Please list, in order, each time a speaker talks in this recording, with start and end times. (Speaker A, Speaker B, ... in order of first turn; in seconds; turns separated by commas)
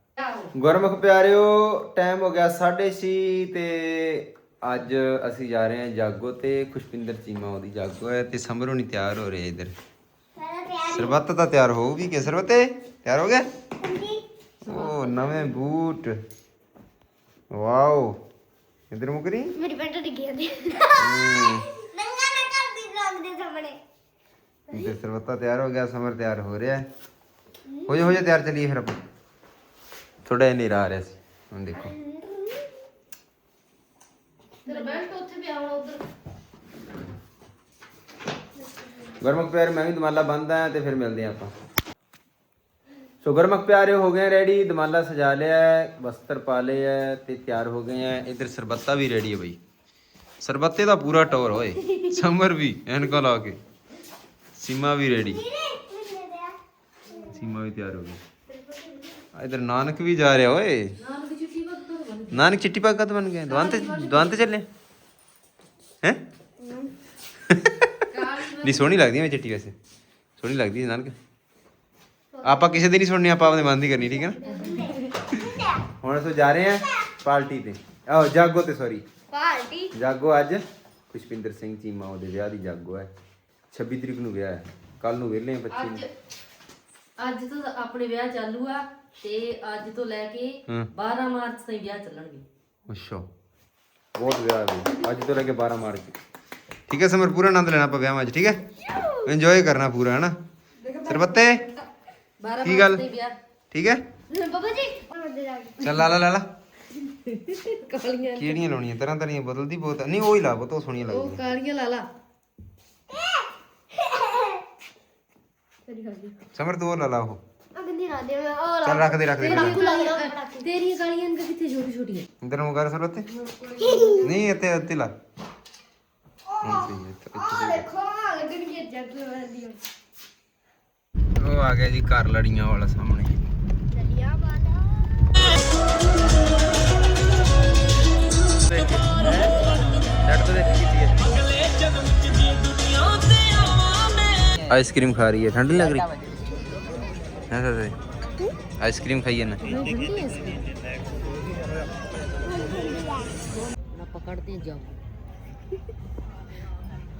Speaker A: 0.5-9.7, Speaker B: 10.4-11.2, Speaker A: 10.9-13.5, Speaker B: 13.8-14.2, Speaker A: 14.6-16.2, Speaker A: 17.5-18.2, Speaker A: 18.9-19.5, Speaker B: 19.6-23.8, Speaker A: 20.9-21.7, Speaker A: 24.7-26.9, Speaker A: 27.9-29.0, Speaker A: 30.2-31.9, Speaker B: 31.8-32.7, Speaker B: 34.6-35.0, Speaker C: 34.7-36.0, Speaker A: 39.2-41.5, Speaker A: 43.2-49.6, Speaker A: 50.4-53.6, Speaker A: 54.5-55.5, Speaker B: 55.4-56.6, Speaker A: 57.2-58.2, Speaker B: 58.5-59.1, Speaker A: 59.3-60.9, Speaker C: 61.0-62.4, Speaker A: 62.3-64.7, Speaker C: 63.5-64.3, Speaker B: 66.6-66.9, Speaker A: 67.5-67.9, Speaker C: 68.1-68.9, Speaker A: 68.6-69.7, Speaker A: 70.4-71.1, Speaker B: 72.3-72.8, Speaker A: 72.4-74.4, Speaker B: 74.3-75.0, Speaker C: 74.4-75.1, Speaker A: 76.0-79.0, Speaker B: 79.3-79.9, Speaker A: 79.9-83.1, Speaker A: 83.7-86.0, Speaker C: 85.7-86.1, Speaker C: 87.2-92.4, Speaker A: 92.9-93.2, Speaker A: 94.1-96.2, Speaker A: 96.9-98.6, Speaker A: 99.2-100.3, Speaker A: 101.0-101.6, Speaker C: 102.4-103.3, Speaker A: 102.6-103.0, Speaker A: 103.7-104.0, Speaker B: 104.3-105.9, Speaker A: 105.8-106.5, Speaker C: 107.1-108.6, Speaker A: 108.3-111.4, Speaker C: 111.1-112.1, Speaker B: 114.0-114.6, Speaker B: 115.9-116.3, Speaker A: 116.5-117.4, Speaker B: 117.7-120.7, Speaker A: 118.8-119.8, Speaker C: 119.4-122.3, Speaker A: 122.4-123.3, Speaker B: 123.4-124.3, Speaker C: 123.8-124.2, Speaker A: 124.2-125.1, Speaker A: 126.6-127.9, Speaker B: 127.4-129.8, Speaker A: 131.4-133.5, Speaker B: 133.9-135.2, Speaker A: 138.6-139.5, Speaker A: 140.2-141.3, Speaker A: 144.6-146.1, Speaker A: 147.5-147.9, Speaker A: 148.8-149.6, Speaker C: 149.6-150.7, Speaker B: 152.5-153.3, Speaker C: 153.9-155.0